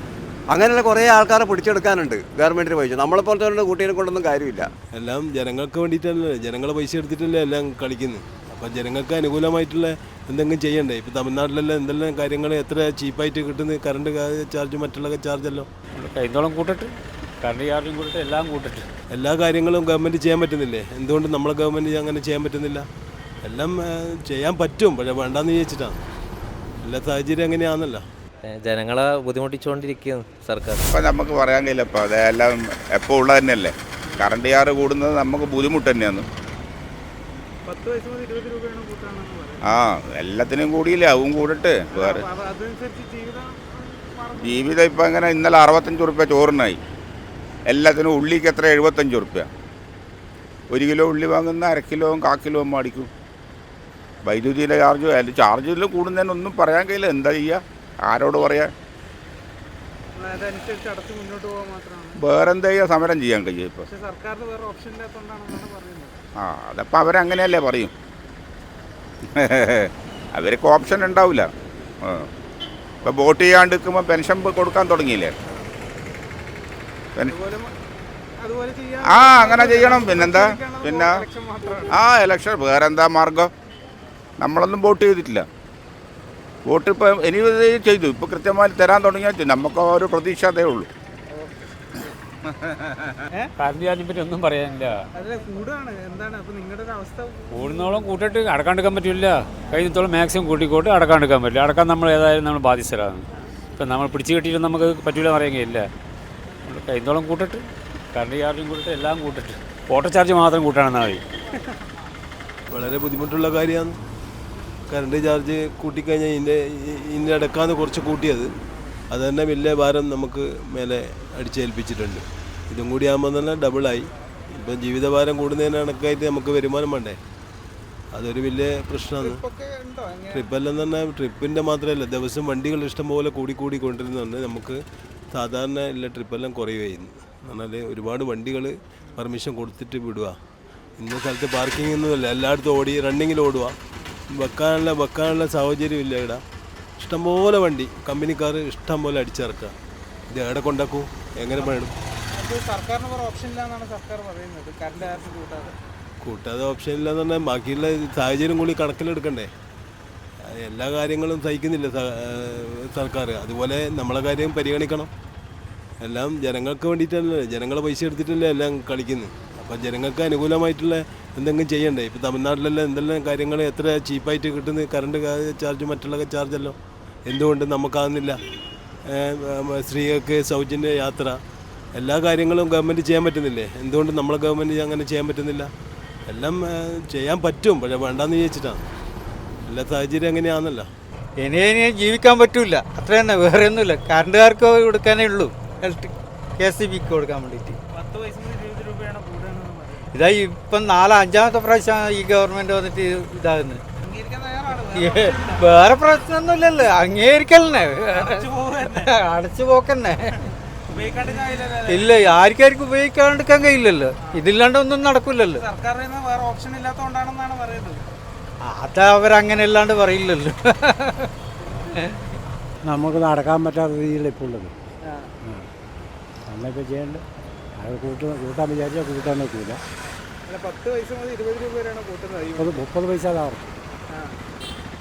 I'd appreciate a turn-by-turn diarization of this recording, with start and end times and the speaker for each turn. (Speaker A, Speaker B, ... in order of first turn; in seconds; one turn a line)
Speaker A: 0.5-4.7
Speaker B: 4.9-15.7
Speaker C: 16.0-18.9
Speaker B: 19.1-22.9
Speaker B: 23.4-26.0
Speaker B: 26.8-28.0
Speaker D: 28.4-30.8
Speaker E: 30.9-36.2
Speaker F: 37.7-39.6
Speaker E: 39.7-42.2
Speaker F: 41.9-44.8
Speaker E: 44.4-46.8
Speaker E: 47.7-49.5
Speaker E: 50.7-53.1
Speaker E: 54.2-58.7
Speaker F: 60.2-62.2
Speaker E: 62.2-63.8
Speaker F: 63.9-66.2
Speaker E: 66.4-67.9
Speaker E: 69.4-71.5
Speaker E: 73.0-75.3
Speaker F: 77.3-77.7
Speaker F: 78.4-82.0
Speaker E: 79.1-81.2
Speaker E: 81.9-83.5
Speaker E: 84.4-85.5
Speaker E: 86.7-90.9
Speaker F: 91.3-91.8
Speaker C: 93.6-95.0
Speaker F: 95.2-98.1
Speaker C: 97.5-105.9
Speaker C: 106.7-111.2
Speaker B: 112.7-114.0
Speaker B: 114.9-118.5
Speaker B: 119.1-127.2
Speaker B: 128.1-129.4
Speaker F: 129.2-130.6
Speaker B: 130.3-134.8
Speaker B: 135.3-140.4
Speaker B: 141.0-143.8
Speaker B: 144.4-146.4
Speaker B: 147.0-149.7
Speaker B: 150.3-151.9
Speaker F: 152.3-155.8
Speaker B: 156.2-159.5
Speaker B: 160.6-165.1
Speaker B: 166.0-178.4
Speaker B: 179.1-181.4
Speaker B: 181.9-185.7
Speaker B: 186.3-188.9
Speaker B: 189.7-190.9
Speaker G: 191.4-197.8
Speaker F: 197.9-200.1
Speaker G: 200.1-203.8
Speaker F: 204.0-205.6
Speaker G: 204.8-215.7
Speaker F: 208.2-209.1
Speaker F: 210.9-212.2
Speaker F: 215.6-218.0
Speaker G: 218.6-221.3
Speaker G: 221.9-222.2
Speaker H: 222.9-224.7
Speaker H: 226.5-227.2
Speaker H: 227.8-229.8
Speaker F: 230.5-232.9
Speaker H: 232.6-233.6
Speaker F: 234.1-234.4